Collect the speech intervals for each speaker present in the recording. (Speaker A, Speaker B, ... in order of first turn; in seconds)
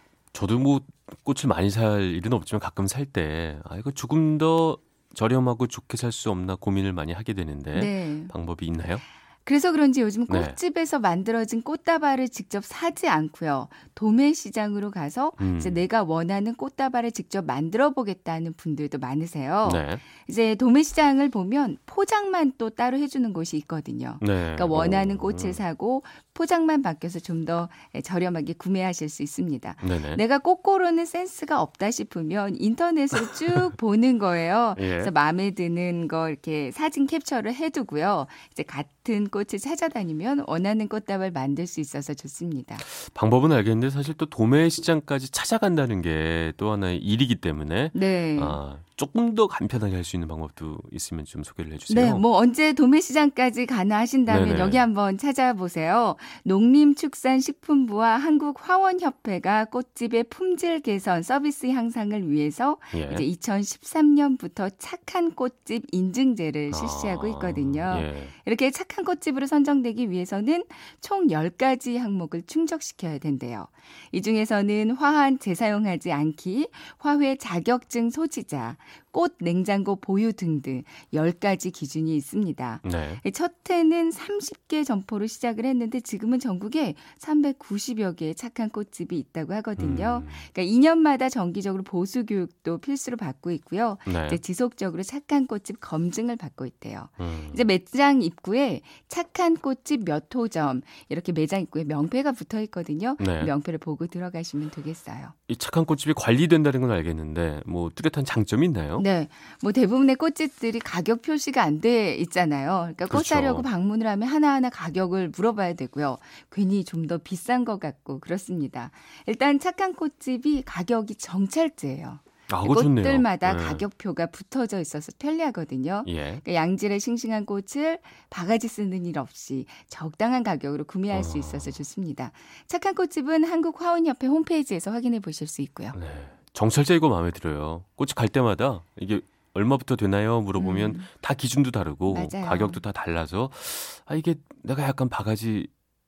Speaker A: 0.3-9.0, 10.3-10.6, 15.4-15.8, 19.6-20.0, 24.2-25.6, 29.8-30.2, 34.8-35.1, 42.8-52.2, 54.3-54.9, 62.9-63.3, 66.7-68.3, 82.8-83.2, 89.8-90.5, 94.1-94.4, 97.2-97.6, 103.2-103.5, 105.5-109.0, 113.1-113.7, 122.5-123.8, 126.0-126.4, 131.1-131.8, 135.9-145.7
Speaker B: 7.7-8.3, 9.4-42.8, 47.9-48.6, 51.9-105.3, 109.0-136.0, 140.6-141.1, 142.1-142.8